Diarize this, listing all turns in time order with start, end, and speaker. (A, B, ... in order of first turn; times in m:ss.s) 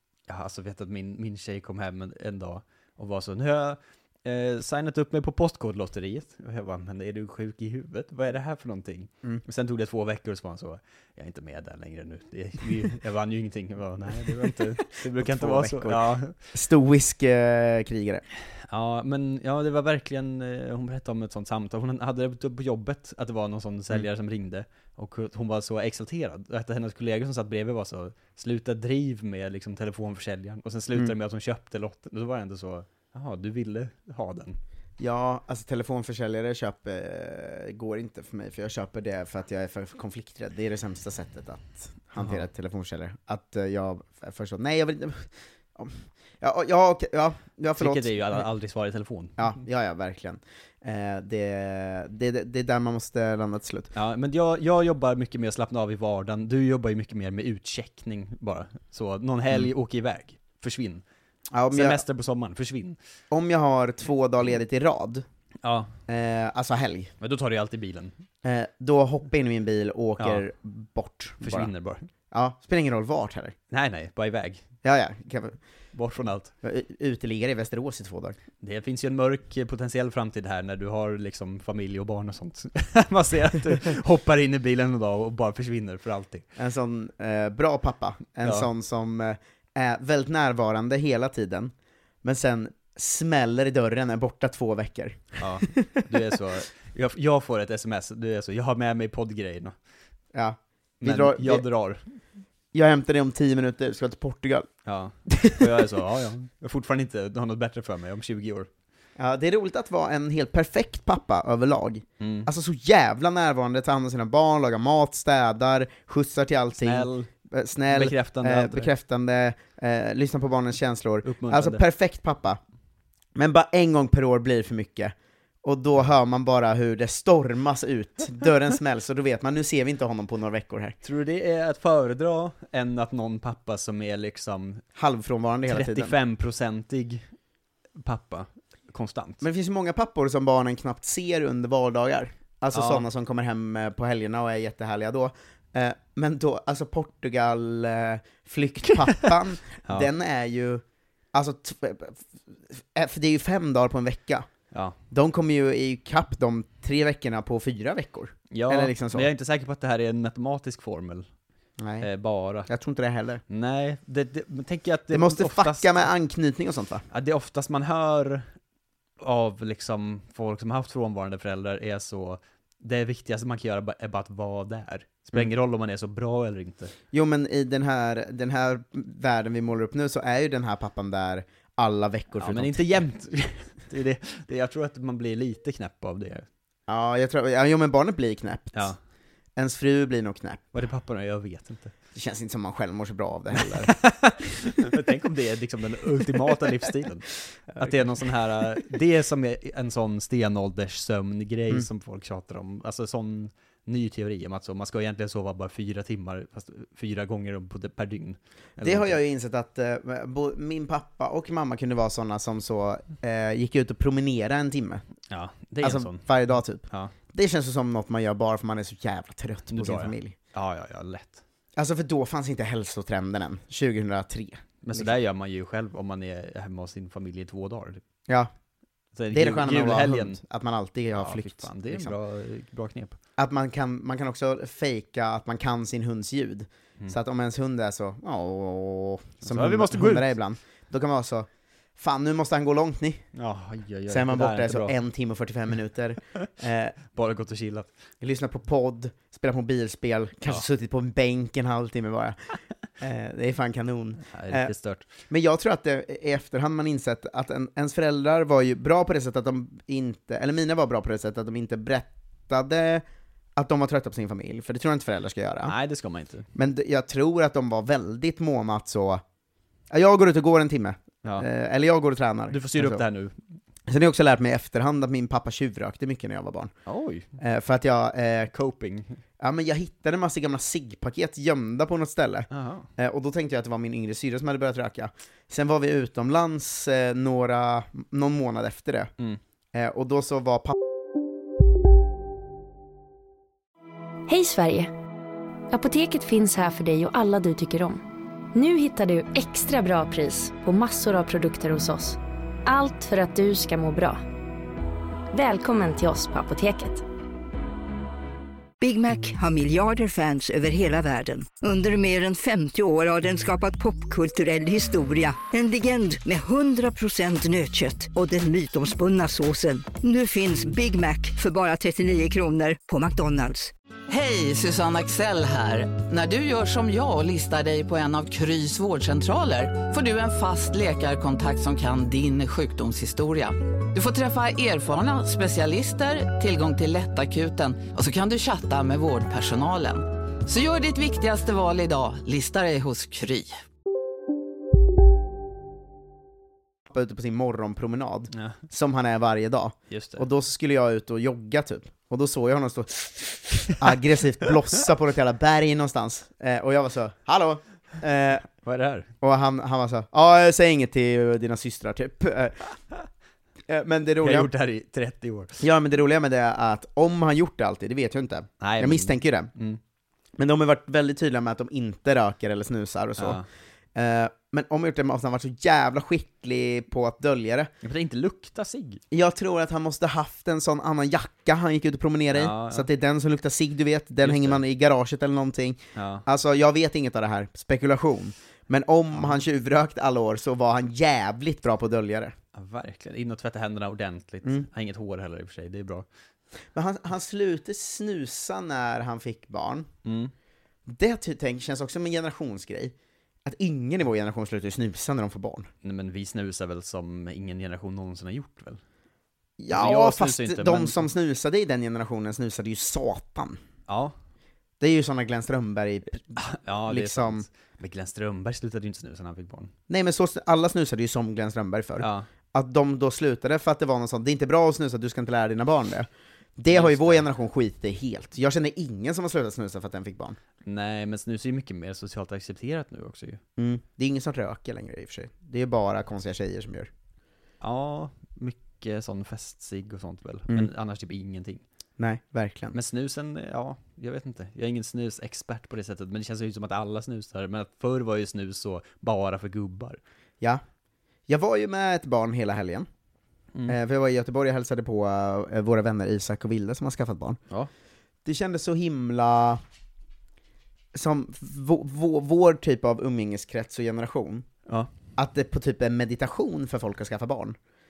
0:00.3-0:16.4 A
0:14.4-0:18.2 B
0:18.7-0:34.6 A
0:35.0-0:48.4 B
0:42.2-0:42.4 A
0:47.8-0:49.5 A
0:49.4-0:53.9 B
0:53.9-1:01.0 A
1:01.5-1:02.0 B
1:01.7-1:03.0 A
1:03.3-1:05.2 B
1:05.6-1:05.9 A
1:06.1-1:07.1 B
1:07.2-1:08.2 A
1:08.4-1:11.7 B
1:11.4-1:12.1 A
1:12.3-1:13.6 B
1:13.7-1:14.6 A
1:14.8-1:15.6 B
1:15.9-1:16.5 A
1:16.6-1:18.4 B
1:18.6-1:26.4 A
1:26.6-1:36.2 B
1:35.4-1:39.8 A
1:40.3-1:41.6 B
1:41.0-1:42.0 A
1:42.7-1:44.7 B
1:44.8-1:48.7 A
1:45.3-1:45.7 B
1:49.2-2:02.6 B
1:52.2-1:52.5 A
1:56.8-1:57.3 A
1:57.9-1:58.9 A
2:01.2-2:01.8 A
2:03.4-2:11.0 B
2:11.0-2:14.8 A
2:15.0-2:16.2 B
2:15.7-2:17.3 A
2:18.0-2:19.4 A
2:19.4-2:34.5 B
2:22.7-2:23.0 A
2:35.1-2:39.3 B
2:38.5-2:41.3 A
2:41.8-2:42.1 B
2:42.0-2:42.7 A
2:42.7-2:43.4 B
2:43.5-2:46.1 A
2:45.1-2:47.0 B
2:47.1-2:48.5 A
2:49.2-2:56.9 A
2:57.1-3:03.0 B
3:02.4-3:06.5 A
3:06.9-3:08.9 B
3:09.6-3:10.7 B
3:10.7-3:11.9 A
3:12.2-3:14.0 B
3:13.8-3:29.2 A
3:28.8-3:35.0 B
3:35.3-3:36.3 A
3:35.8-3:40.4 B
3:36.9-3:37.1 A
3:39.7-3:41.4 A
3:41.8-3:45.1 B
3:44.8-3:48.0 A
3:49.2-3:50.4 A
3:49.3-3:52.2 B
3:51.2-3:53.2 A
3:53.4-4:03.2 B
3:59.4-4:00.3 A
4:03.4-4:05.0 A
4:04.1-4:07.0 B
4:07.1-4:07.9 A
4:08.2-4:12.4 B
4:13.0-4:14.7 B
4:14.3-4:15.1 A
4:15.3-4:23.0 B
4:23.6-4:25.8 B
4:25.6-4:26.5 A
4:26.6-4:29.2 B
4:29.9-4:33.0 B
4:32.5-4:33.3 A
4:33.9-4:36.7 B
4:36.9-4:37.3 A
4:37.4-4:38.5 B
4:38.5-4:39.2 A
4:39.4-4:49.1 B
4:42.5-4:42.9 A
4:49.7-4:50.8 B
4:54.3-4:54.9 C
4:55.7-4:58.0 C
4:58.5-5:04.2 C
5:05.3-5:07.0 C
5:08.8-5:23.7 D
5:24.1-5:43.6 E
5:46.9-5:58.5 B
5:49.9-5:50.2 A
5:58.6-5:59.1 A
5:59.2-6:02.6 B
6:03.7-6:04.5 B
6:04.2-6:05.6 A
6:05.6-6:09.5 B
6:08.6-6:09.8 A
6:10.4-6:13.4 B
6:13.2-6:13.4 A
6:14.0-6:17.7 B
6:17.8-6:19.0 A
6:19.1-6:32.4 B
6:22.3-6:22.9 A
6:24.2-6:24.6 A
6:26.0-6:26.2 A
6:32.5-6:36.1 A
6:36.7-6:39.9 B
6:40.0-6:40.3 A
6:40.9-6:42.9 B
6:43.4-6:45.7 B
6:45.8-6:48.8 A
6:49.6-6:53.6 B
6:49.7-6:51.1 A
6:53.9-6:54.1 A
6:54.8-6:57.5 B
6:56.3-6:59.7 A
6:59.9-7:10.4 B
7:02.0-7:02.3 A
7:06.7-7:07.2 A
7:10.6-7:13.4 A
7:13.6-7:16.9 B
7:17.6-7:21.6 A
7:22.0-7:22.8 B
7:22.7-7:30.0 A
7:31.3-7:32.9 B
7:33.7-7:37.4 B
7:38.2-7:39.6 B
7:40.9-7:44.5 B
7:45.2-7:47.6 B